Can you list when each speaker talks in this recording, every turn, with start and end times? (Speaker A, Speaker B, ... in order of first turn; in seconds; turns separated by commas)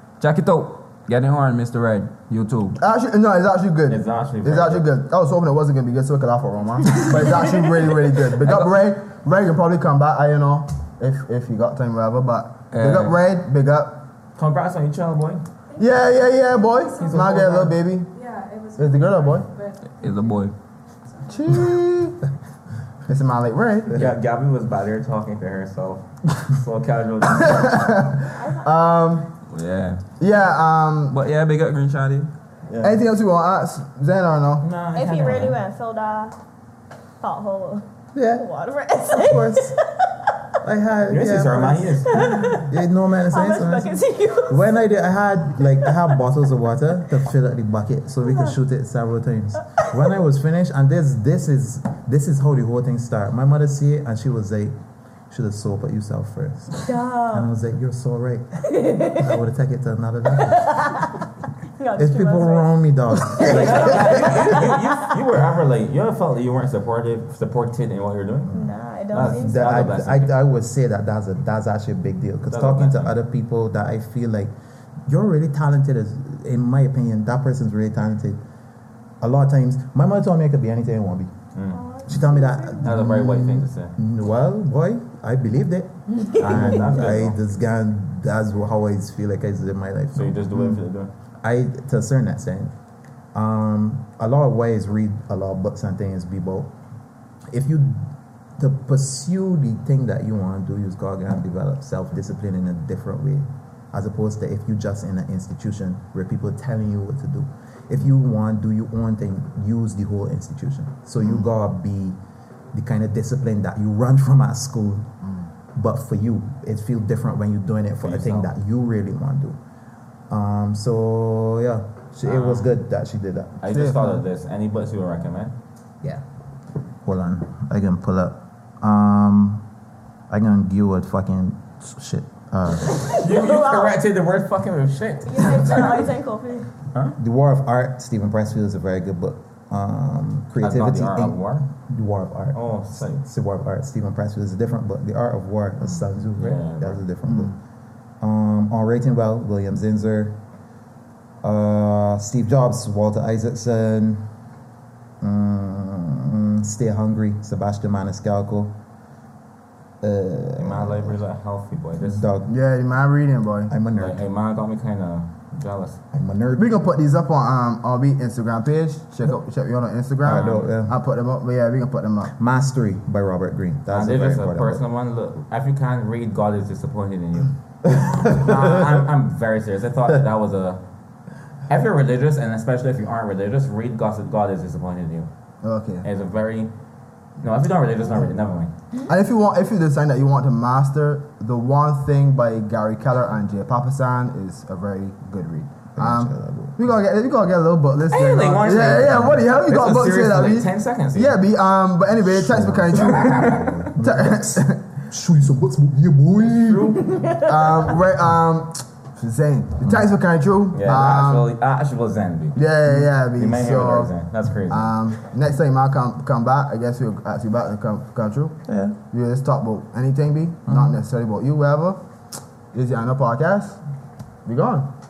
Speaker A: 0.2-2.8, Speaker B: 2.8-14.1, Speaker C: 3.9-4.8, Speaker A: 6.9-7.8, Speaker A: 8.4-8.8, Speaker A: 12.7-13.2, Speaker C: 14.3-15.4, Speaker B: 15.8-18.1, Speaker D: 16.7-20.5, Speaker C: 17.0-17.7, Speaker B: 18.8-19.5, Speaker A: 20.0-20.6, Speaker D: 21.1-21.6, Speaker B: 21.3-22.2, Speaker B: 23.1-24.0, Speaker C: 23.9-28.1, Speaker B: 27.4-29.3, Speaker E: 28.3-28.7, Speaker A: 29.5-30.0, Speaker B: 30.2-31.2, Speaker A: 31.1-33.0, Speaker B: 32.8-34.6, Speaker C: 34.6-35.6, Speaker E: 34.9-36.4, Speaker E: 37.2-40.3, Speaker F: 38.1-38.5, Speaker F: 39.1-39.8, Speaker F: 40.6-54.7, Speaker C: 41.1-42.1, Speaker E: 42.1-44.7, Speaker E: 45.8-46.1, Speaker E: 48.2-48.5, Speaker F: 55.3-61.2, Speaker E: 56.8-57.5, Speaker E: 58.7-59.4, Speaker E: 60.4-61.1, Speaker E: 61.8-65.1, Speaker F: 62.0-64.5, Speaker C: 63.4-68.5, Speaker F: 68.5-74.5, Speaker E: 68.5-69.9, Speaker C: 69.1-70.3, Speaker C: 72.5-73.1, Speaker F: 75.1-78.4, Speaker F: 79.2-81.3, Speaker C: 81.5-81.8, Speaker E: 81.7-83.0, Speaker F: 82.0-90.8, Speaker C: 82.8-83.9, Speaker E: 86.1-86.8, Speaker C: 86.4-87.4, Speaker C: 90.1-91.1, Speaker F: 91.4-92.7, Speaker F: 93.3-96.7, Speaker F: 97.5-112.2, Speaker F: 112.7-115.1, Speaker B: 115.2-115.5, Speaker F: 115.7-119.6, Speaker C: 118.0-118.5, Speaker F: 120.3-123.6, Speaker C: 122.2-122.7, Speaker C: 123.6-125.5, Speaker B: 123.6-124.2, Speaker F: 127.0-129.6, Speaker F: 130.3-133.1, Speaker E: 133.0-134.0, Speaker C: 133.1-136.1, Speaker E: 135.3-136.7, Speaker F: 137.2-147.6, Speaker C: 140.6-141.7, Speaker C: 142.5-143.2, Speaker C: 146.4-147.0, Speaker F: 148.2-150.4, Speaker F: 151.4-154.3, Speaker F: 155.2-158.7, Speaker F: 160.0-161.2, Speaker C: 160.6-162.3, Speaker F: 162.0-162.5, Speaker B: 162.5-163.7, Speaker F: 163.7-164.2, Speaker C: 164.0-166.0, Speaker F: 166.1-166.7, Speaker B: 166.6-172.3, Speaker F: 170.2-170.9, Speaker C: 170.3-170.7, Speaker F: 172.3-174.8, Speaker C: 173.9-180.8, Speaker F: 177.8-179.0, Speaker C: 181.7-185.3, Speaker B: 185.6-186.1, Speaker C: 186.0-186.7, Speaker C: 187.4-188.7, Speaker B: 189.1-204.8, Speaker F: 195.9-196.8, Speaker C: 198.1-201.4, Speaker F: 202.3-206.0, Speaker C: 203.0-203.9, Speaker B: 205.9-211.5, Speaker C: 206.4-207.2, Speaker E: 207.2-207.9, Speaker F: 209.8-210.1, Speaker C: 210.7-212.6, Speaker B: 212.6-214.1, Speaker C: 213.3-215.0, Speaker B: 214.7-218.6, Speaker F: 218.7-218.9, Speaker B: 219.1-222.0, Speaker F: 220.7-221.0, Speaker B: 222.7-223.8, Speaker B: 224.4-224.9